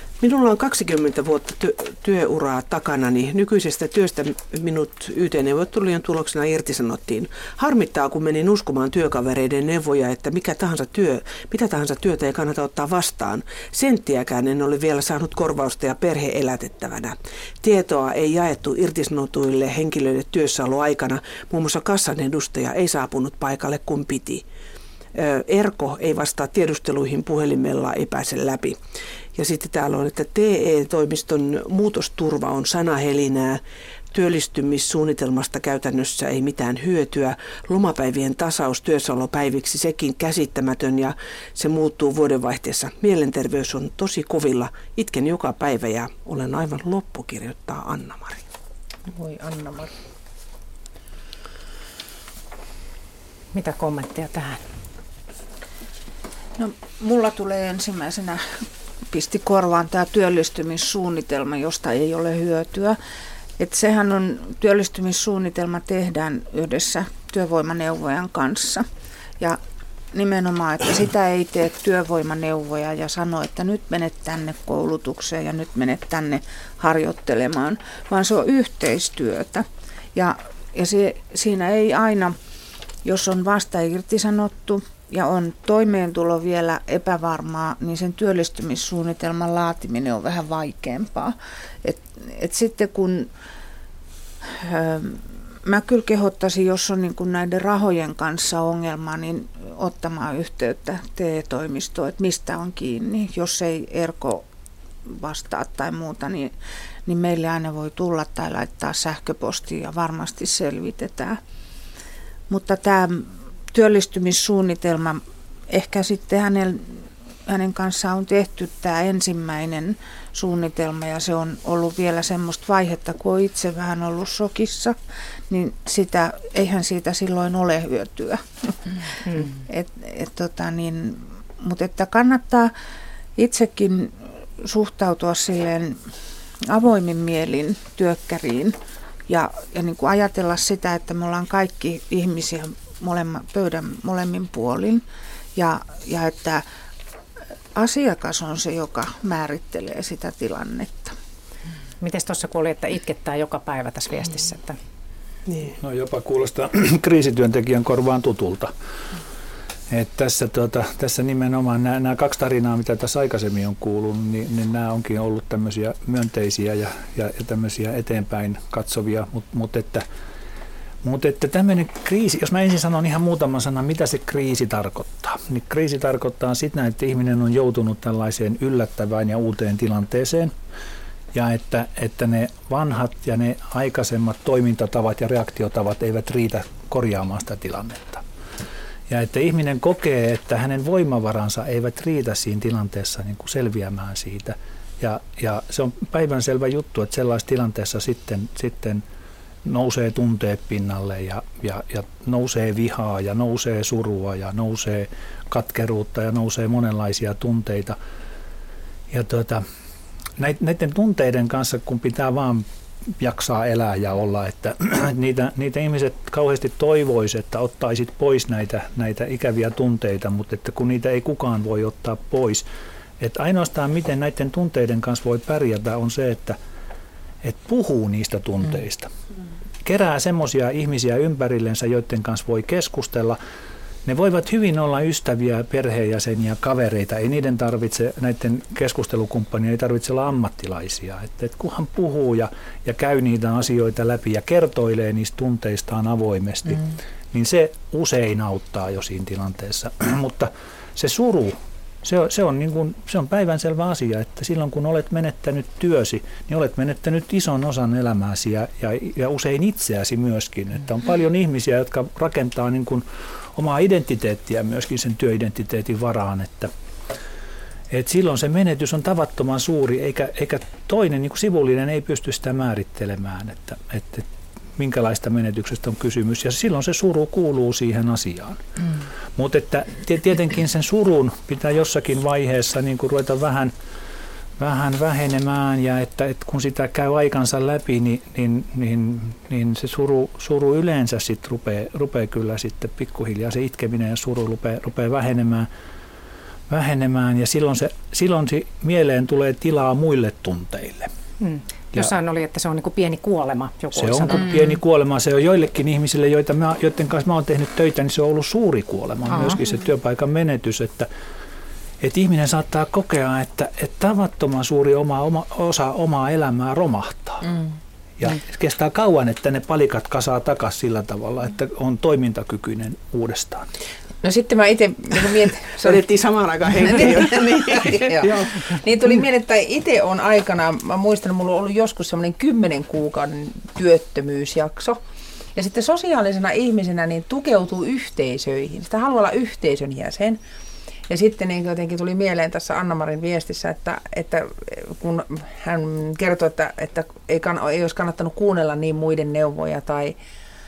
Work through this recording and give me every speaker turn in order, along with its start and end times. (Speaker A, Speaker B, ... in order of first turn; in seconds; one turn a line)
Speaker A: 0.2-24.4
Speaker A: 25.1-28.8
Speaker A: 29.4-48.5
Speaker B: 49.1-49.9
Speaker C: 53.5-54.6
Speaker D: 56.6-63.0
Speaker D: 63.6-68.9
Speaker D: 70.1-82.4
Speaker D: 83.0-93.3
Speaker D: 94.5-104.5
Speaker D: 105.1-106.5
Speaker D: 107.1-111.4
Speaker D: 112.5-116.9
Speaker D: 117.5-125.0
Speaker D: 125.5-132.7
Speaker D: 133.4-136.0
Speaker D: 136.7-138.8
Speaker D: 139.3-145.0
Speaker D: 145.6-146.7
Speaker D: 147.8-151.2
Speaker C: 152.0-154.8
Speaker A: 155.5-155.8
Speaker E: 155.8-158.7
Speaker E: 159.9-170.1
Speaker E: 171.0-180.5
Speaker E: 181.3-188.2
Speaker E: 189.1-199.0
Speaker E: 199.6-208.0
Speaker E: 209.1-209.6
Speaker E: 210.4-222.7
Speaker E: 223.2-226.6
Speaker E: 227.4-229.1
Speaker E: 229.8-233.4
Speaker E: 234.1-266.7
Speaker E: 267.9-278.6
Speaker E: 279.4-283.7
Speaker E: 284.6-295.7
Speaker E: 296.7-301.1
Speaker C: 301.4-304.5
Speaker E: 303.9-311.1
Speaker B: 304.4-304.7
Speaker E: 312.0-317.5
Speaker E: 318.2-323.7
Speaker B: 324.2-326.0
Speaker A: 325.8-328.7
Speaker B: 326.9-335.0
Speaker B: 335.6-340.4
Speaker B: 341.1-350.2